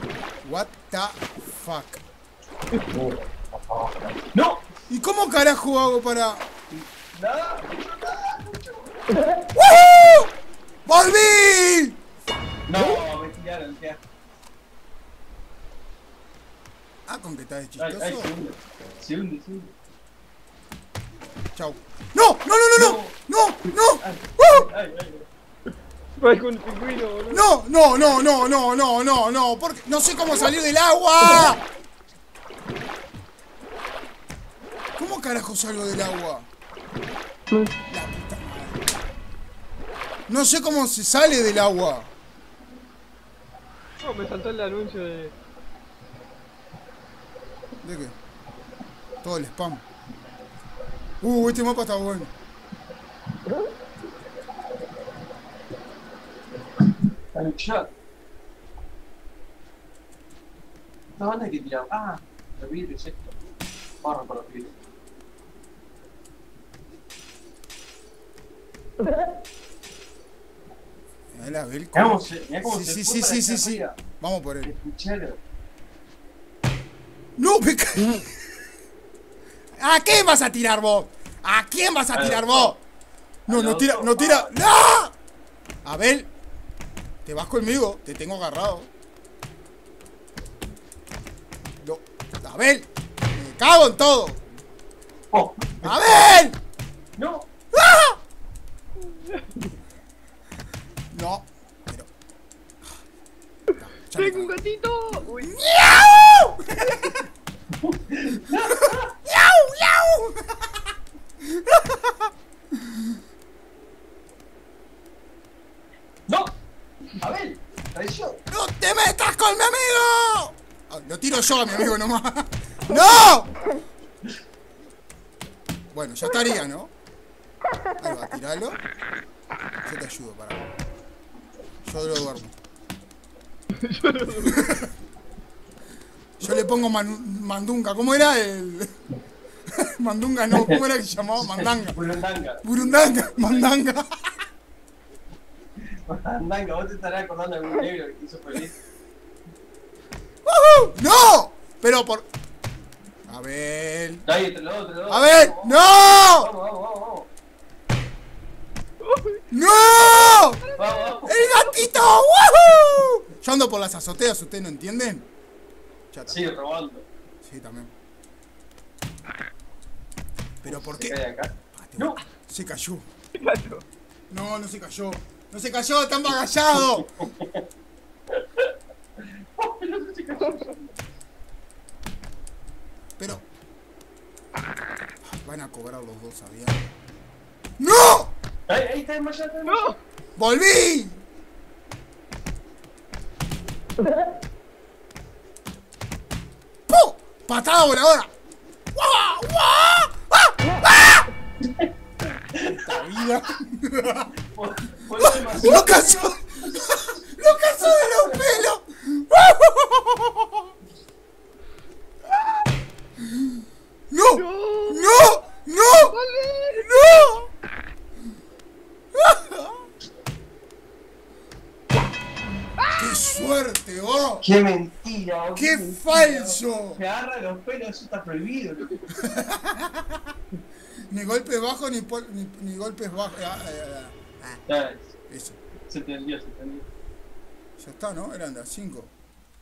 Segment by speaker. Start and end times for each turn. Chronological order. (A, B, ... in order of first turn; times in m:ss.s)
0:00.4-0:02.0 A
0:02.9-0:04.6 B
0:04.9-0:06.5 A
0:06.7-0:09.0 B
0:09.5-0:10.3 A
0:10.9-0:12.0 A
0:12.7-0:14.0 B
0:17.1-0:18.3 A
0:17.8-0:19.7 B
0:21.6-0:24.7 A
0:22.7-0:25.3 B
0:26.2-0:27.5 C
0:27.3-0:31.7 A
0:35.0-0:36.5 A
0:37.9-0:39.0 A
0:40.3-0:42.1 A
0:44.0-0:45.3 C
0:47.8-0:48.2 A
0:49.2-0:49.8 A
0:51.2-0:52.3 A
0:57.3-0:57.9 B
1:01.2-1:03.4 B
1:04.0-1:04.8 B
1:11.3-1:14.7 A
1:11.9-1:14.0 B
1:14.6-1:15.4 B
1:17.4-1:18.4 A
1:19.8-1:22.8 A
1:22.1-1:22.8 B
1:23.5-1:24.5 B
1:23.5-1:25.2 A
1:25.8-1:26.3 A
1:27.3-1:28.9 A
1:31.8-1:34.5 A
1:35.3-1:36.2 B
1:35.8-1:36.6 A
1:37.2-1:37.5 B
1:37.7-1:38.2 A
1:39.1-1:39.5 C
1:41.1-1:42.1 A
1:43.8-1:44.6 A
1:44.2-1:45.5 C
1:45.4-1:47.3 A
1:47.8-1:49.1 B
1:48.6-1:50.8 A
1:51.4-1:52.3 A
1:56.3-1:56.5 B
1:57.1-1:58.4 B
1:58.5-2:03.6 A
2:05.9-2:06.9 A
2:08.0-2:08.8 A
2:09.8-2:10.7 A
2:11.8-2:12.6 A
2:13.8-2:14.6 C
2:14.4-2:14.9 A
2:16.4-2:18.9 A
2:19.7-2:22.0 A
2:20.5-2:20.8 B
2:21.4-2:23.8 B
2:22.6-2:24.3 A
2:26.0-2:28.8 B
2:30.4-2:32.3 A
2:33.3-2:34.3 A
2:34.2-2:37.3 B
2:35.1-2:36.5 A
2:39.0-2:42.0 C
2:39.5-2:40.7 A
2:40.8-2:41.4 B
2:41.2-2:45.3 A
2:46.1-2:46.4 A
2:46.3-2:47.1 B
2:47.4-2:47.9 A
2:50.6-2:51.2 A
2:50.7-2:52.2 B
2:51.7-2:53.1 A
2:53.4-2:53.8 C
2:54.3-2:57.1 A
2:56.8-2:57.6 B
2:58.3-3:00.9 B
3:03.2-3:03.4 A
3:05.2-3:06.8 A
3:07.8-3:08.4 A
3:08.7-3:10.0 B
3:09.7-3:10.0 C
3:10.4-3:11.2 A
3:16.9-3:18.3 A
3:19.0-3:21.3 A
3:21.6-3:23.0 B
3:22.7-3:24.3 A
3:24.4-3:28.7 B
3:25.2-3:30.7 A
3:34.1-3:36.2 A
3:34.3-3:35.4 C
3:35.9-3:37.3 C
3:36.8-3:37.5 A
3:39.1-3:39.9 A
3:42.8-3:43.2 C
3:43.0-3:44.4 A
3:44.4-3:49.0 B
3:45.6-3:47.0 A
3:49.2-3:50.2 A
3:51.1-3:54.6 A
3:54.7-3:55.2 B
3:55.3-3:55.6 A
3:55.9-3:56.9 B
3:57.8-3:59.1 A